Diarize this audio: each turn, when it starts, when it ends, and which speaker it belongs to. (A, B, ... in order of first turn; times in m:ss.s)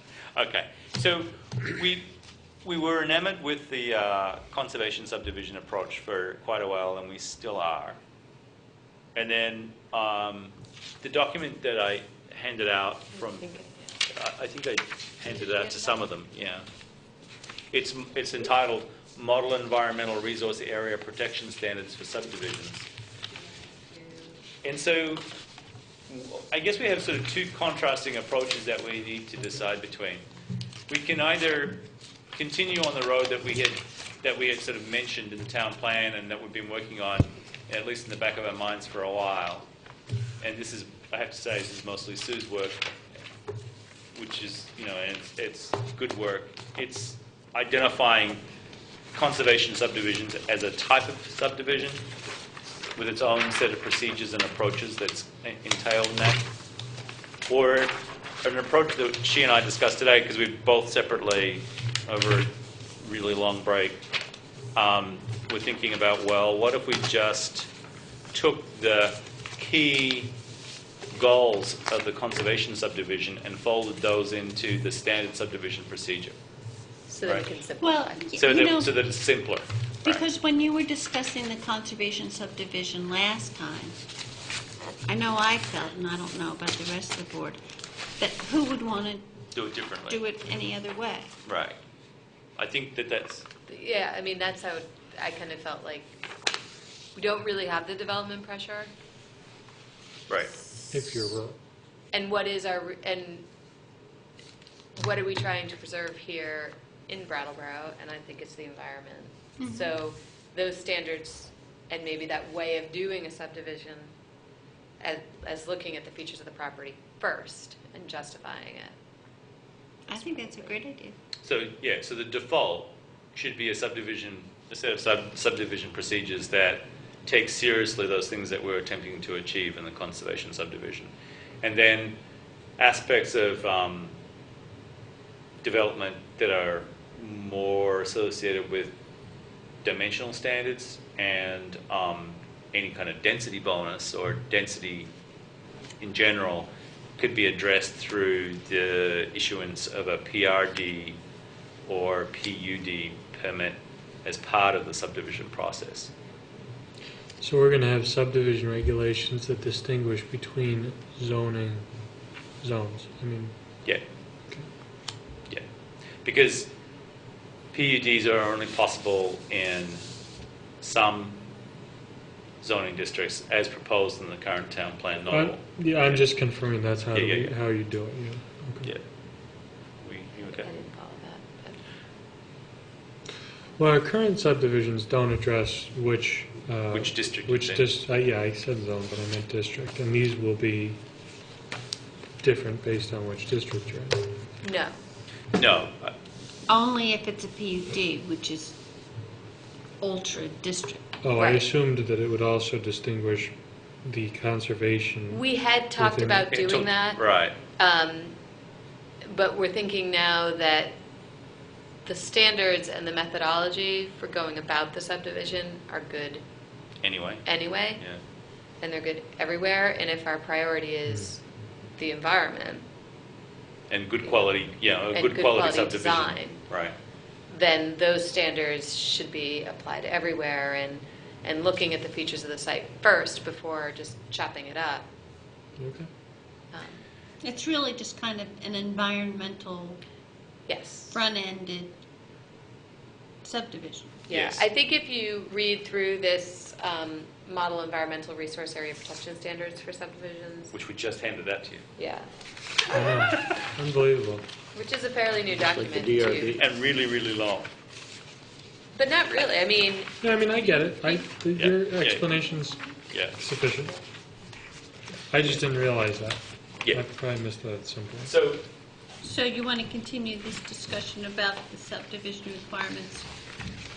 0:00.3-0:02.1 A
0:02.6-0:08.0 A
0:09.1-0:13.5 A
0:13.3-0:13.9 B
0:14.1-0:16.6 A
0:17.7-0:22.9 A
0:23.9-0:24.3 B
0:24.6-0:25.2 A
0:26.1-0:30.2 A
0:30.9-0:39.7 A
0:40.4-0:42.9 A
0:44.1-0:48.4 A
0:49.1-0:52.1 A
0:53.0-0:56.4 A
0:57.4-1:04.0 A
1:04.8-1:07.7 A
1:08.3-1:10.3 A
1:11.1-1:16.3 A
1:17.1-1:18.4 B
1:17.8-1:18.9 C
1:18.4-1:20.3 A
1:20.0-1:24.0 C
1:24.8-1:27.6 C
1:28.2-1:29.3 C
1:29.5-1:30.2 A
1:30.1-1:31.4 C
1:31.4-1:31.8 A
1:32.6-1:33.5 A
1:33.7-1:36.1 B
1:37.2-1:38.9 B
1:40.9-1:41.6 D
1:42.1-1:43.4 B
1:45.0-1:54.1 B
1:49.6-1:49.9 C
1:55.0-1:58.9 B
2:00.1-2:01.2 C
2:00.1-2:00.8 B
2:01.4-2:12.2 A
2:12.8-2:14.1 A
2:15.6-2:18.9 A
2:19.8-2:25.1 A
2:26.0-2:31.2 A
2:31.8-2:36.1 A
2:37.4-2:41.9 D
2:42.6-2:43.5 D
2:46.2-2:46.7 A
2:47.7-2:50.0 A
2:50.8-2:51.4 A
2:52.6-2:56.3 A
2:55.3-2:58.9 D
2:57.1-2:57.5 A
3:00.0-3:00.7 A
3:00.5-3:01.8 B
3:03.8-3:11.0 D
3:06.9-3:07.9 A
3:12.4-3:14.2 D
3:14.6-3:14.9 B
3:15.5-3:16.1 A
3:16.7-3:18.8 C
3:20.0-3:21.0 C
3:21.2-3:25.4 D
3:21.4-3:21.7 B
3:25.3-3:27.2 B
3:26.0-3:26.5 D
3:26.5-3:27.6 A
3:27.7-3:28.3 B
3:29.2-3:30.9 B
3:32.0-3:36.4 B
3:37.0-3:38.2 A
3:37.4-3:38.0 B
3:38.8-3:41.4 B
3:42.0-3:42.8 B
3:43.9-3:46.9 A
3:45.1-3:46.6 B
3:47.5-3:55.0 B
3:55.8-3:56.1 D
3:56.7-3:57.0 B
3:57.4-4:00.0 C
4:00.7-4:01.2 B
4:01.1-4:02.0 C
4:03.4-4:04.2 C
4:04.3-4:10.7 B
4:04.3-4:04.6 A
4:10.7-4:11.8 A
4:12.0-4:12.3 B
4:12.9-4:14.4 D
4:14.7-4:16.6 B
4:16.6-4:17.7 A
4:18.9-4:20.2 B
4:20.2-4:24.0 D
4:21.6-4:22.2 A
4:23.1-4:23.4 A
4:25.3-4:28.3 D
4:28.2-4:28.6 A
4:29.2-4:33.3 C